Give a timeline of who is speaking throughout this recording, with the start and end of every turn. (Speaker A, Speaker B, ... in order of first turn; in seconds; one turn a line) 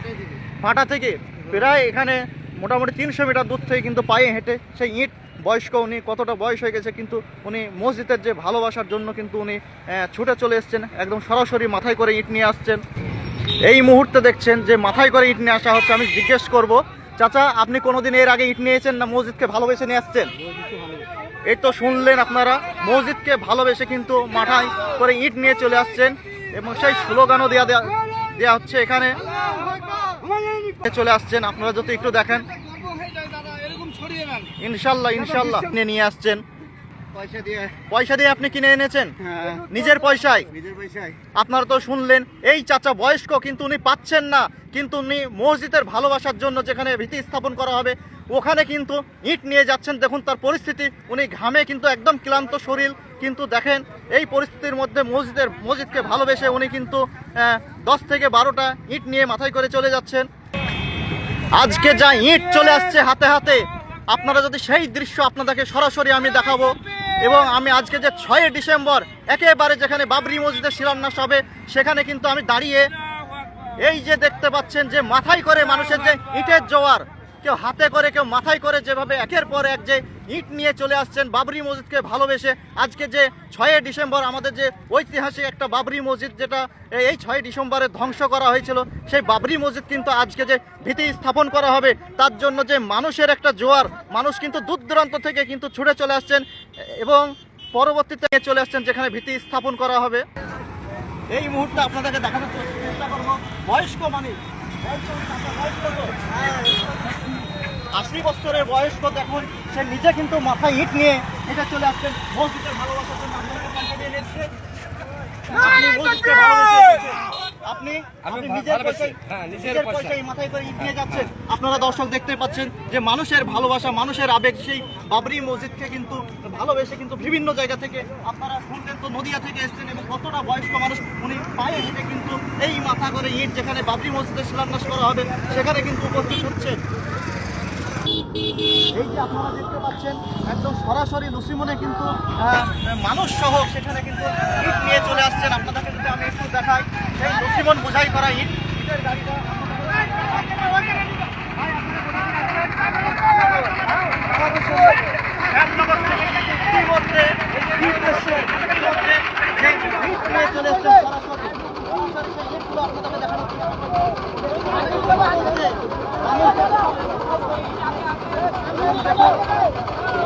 Speaker A: 0.6-12.8
Speaker A: 13.7-20.3
Speaker A: 21.5-29.2
Speaker B: 29.5-30.2
Speaker A: 30.7-32.5
Speaker B: 32.8-34.5
Speaker A: 34.6-36.4
Speaker B: 37.2-37.7
Speaker A: 37.8-40.6
Speaker B: 39.3-39.7
Speaker B: 40.6-41.1
Speaker A: 41.4-60.3
Speaker A: 61.5-72.9
Speaker A: 73.8-100.2
Speaker A: 101.3-106.4
Speaker A: 107.9-114.5
Speaker A: 115.5-136.8
Speaker A: 138.9-150.8
Speaker A: 153.3-167.8
Speaker A: 168.7-169.3